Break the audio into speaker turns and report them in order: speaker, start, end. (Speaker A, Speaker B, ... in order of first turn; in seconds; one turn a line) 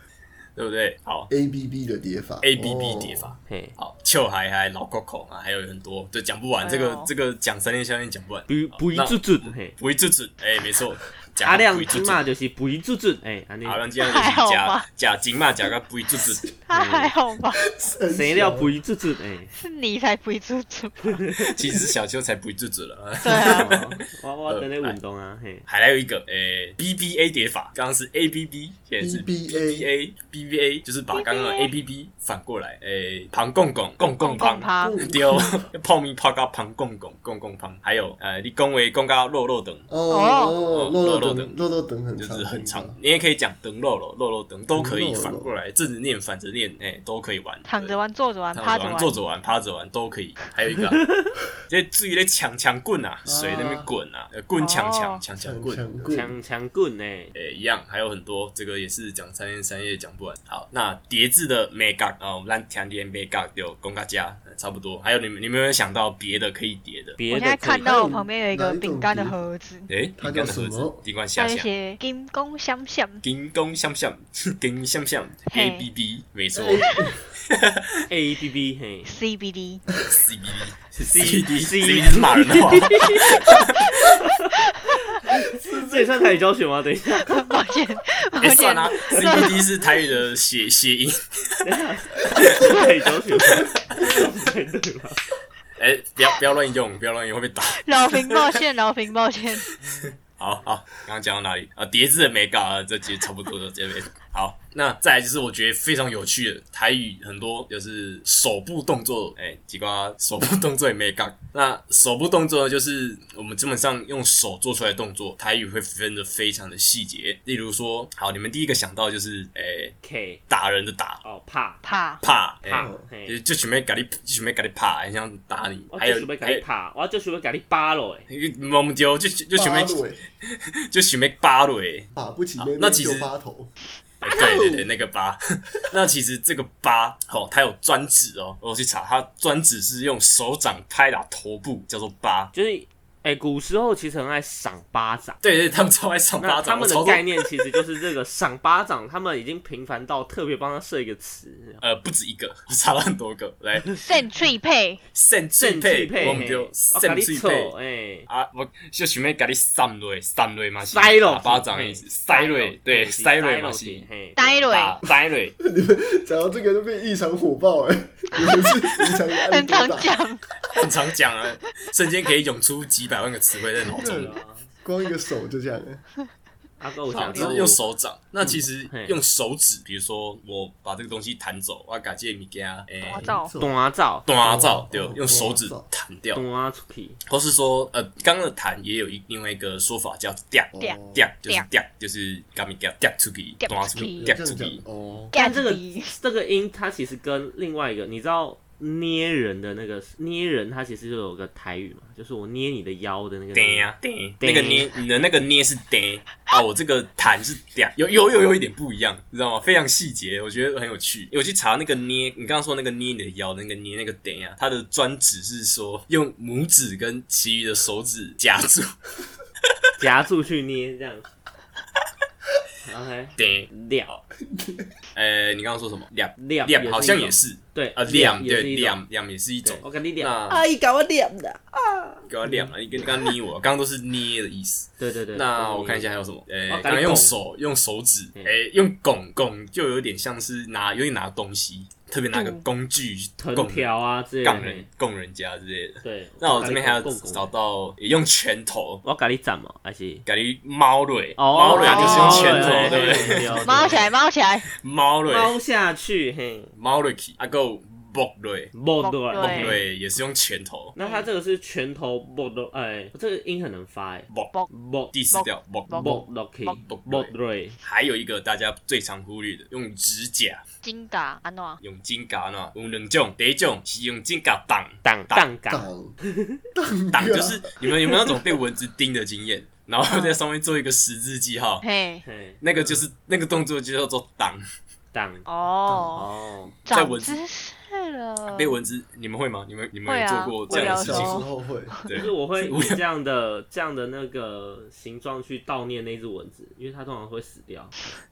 Speaker A: 0.6-1.3
Speaker B: 1.3-3.3
Speaker A: 2.4-12.2
Speaker C: 3.5-3.7
Speaker D: 6.6-7.1
Speaker C: 8.5-9.7
Speaker C: 11.4-13.8
Speaker A: 13.6-16.4
Speaker D: 14.0-14.8
Speaker D: 16.7-17.6
Speaker C: 16.7-17.1
Speaker B: 17.6-18.8
Speaker C: 18.1-19.5
Speaker D: 19.5-21.2
Speaker C: 21.0-21.6
Speaker A: 21.4-24.9
Speaker D: 23.2-23.7
Speaker C: 23.3-25.6
Speaker A: 25.7-39.9
Speaker B: 29.0-29.9
Speaker D: 31.1-31.7
Speaker D: 34.2-35.0
Speaker B: 34.8-35.7
Speaker B: 39.9-43.0
Speaker D: 40.1-40.6
Speaker A: 40.7-41.5
Speaker A: 42.2-48.0
Speaker B: 44.7-45.5
Speaker D: 47.6-49.1
Speaker A: 48.5-51.0
Speaker C: 51.0-51.3
Speaker A: 51.6-55.9
Speaker B: 53.2-53.9
Speaker D: 54.6-55.2
Speaker B: 55.4-56.4
Speaker C: 56.1-57.3
Speaker A: 57.3-67.2
Speaker C: 67.2-67.9
Speaker D: 67.3-69.9
Speaker B: 67.8-69.4
Speaker A: 69.9-71.7
Speaker B: 70.2-71.0
Speaker D: 71.4-73.2
Speaker A: 73.2-78.0
Speaker D: 75.5-75.9
Speaker B: 76.5-77.3
Speaker C: 78.1-79.1
Speaker D: 79.0-79.8
Speaker A: 80.0-84.1
Speaker C: 81.0-84.5
Speaker C: 85.2-87.5
Speaker B: 85.5-86.3
Speaker D: 87.2-89.9
Speaker A: 88.4-91.7
Speaker C: 91.6-95.2
Speaker A: 92.3-92.7
Speaker A: 93.5-94.1
Speaker A: 95.8-98.6
Speaker D: 97.7-99.7
Speaker A: 99.8-119.9
Speaker C: 120.0-120.4
Speaker A: 120.5-121.2
Speaker C: 121.2-121.8
Speaker D: 121.8-122.2
Speaker A: 122.2-126.6
Speaker C: 122.6-123.4
Speaker B: 122.8-123.0
Speaker C: 125.9-128.3
Speaker A: 128.3-133.3
Speaker B: 129.6-130.2
Speaker B: 132.1-133.7
Speaker A: 134.2-142.5
Speaker C: 134.2-134.8
Speaker C: 142.5-145.4
Speaker A: 145.4-147.8
Speaker C: 146.4-151.8
Speaker A: 151.8-154.0
Speaker D: 154.0-155.0
Speaker A: 155.1-157.7
Speaker C: 155.6-158.3
Speaker A: 158.3-164.1
Speaker C: 160.9-164.7
Speaker D: 164.3-165.0
Speaker A: 164.7-165.5
Speaker B: 165.6-170.1
Speaker D: 169.4-170.4
Speaker A: 170.7-174.3
Speaker B: 173.8-176.0
Speaker C: 174.0-174.7
Speaker C: 176.8-177.8
Speaker A: 177.1-183.3
Speaker D: 177.2-177.5
Speaker C: 178.9-179.2
Speaker D: 183.0-183.5
Speaker B: 183.1-183.7
Speaker C: 183.6-184.3
Speaker A: 184.2-186.4
Speaker B: 184.4-185.8
Speaker C: 186.3-187.2
Speaker A: 187.2-194.8
Speaker B: 190.7-191.3
Speaker D: 190.8-191.7
Speaker D: 193.6-194.3
Speaker B: 194.0-195.3
Speaker D: 195.3-196.1
Speaker C: 195.3-204.9
Speaker A: 203.5-218.9
Speaker C: 220.0-221.3
Speaker C: 222.8-224.2
Speaker A: 223.4-223.7
Speaker B: 224.4-224.9
Speaker A: 225.1-230.6
Speaker C: 226.4-229.0
Speaker C: 229.6-233.3
Speaker A: 232.3-243.9
Speaker C: 235.0-236.1
Speaker C: 236.7-237.3
Speaker D: 242.3-242.6
Speaker C: 243.4-244.8
Speaker A: 244.4-249.0
Speaker C: 246.0-247.5
Speaker C: 249.0-250.2
Speaker A: 250.2-254.0
Speaker C: 251.4-254.0
Speaker D: 251.7-253.0
Speaker B: 252.6-253.7
Speaker D: 253.6-254.7
Speaker A: 254.8-255.6
Speaker C: 255.3-256.7
Speaker A: 256.8-258.7
Speaker C: 258.7-259.8
Speaker D: 259.0-259.8
Speaker A: 259.3-260.9
Speaker C: 260.9-265.1
Speaker D: 261.0-261.3
Speaker A: 265.1-266.1
Speaker D: 265.3-266.8
Speaker C: 265.9-267.8
Speaker A: 266.8-270.6
Speaker D: 270.8-271.8
Speaker A: 271.8-275.5
Speaker C: 275.0-276.6
Speaker B: 275.7-276.2
Speaker B: 276.7-278.4
Speaker A: 277.1-281.8
Speaker D: 280.1-280.4
Speaker D: 281.8-282.2
Speaker C: 282.2-282.6
Speaker A: 282.6-284.6
Speaker C: 285.1-285.5
Speaker D: 285.4-286.3
Speaker B: 285.9-286.2
Speaker C: 286.1-286.7
Speaker D: 286.9-288.8
Speaker A: 286.9-287.4
Speaker A: 288.5-291.4
Speaker D: 290.1-292.1
Speaker B: 290.8-292.0
Speaker A: 292.1-293.0
Speaker C: 292.1-297.9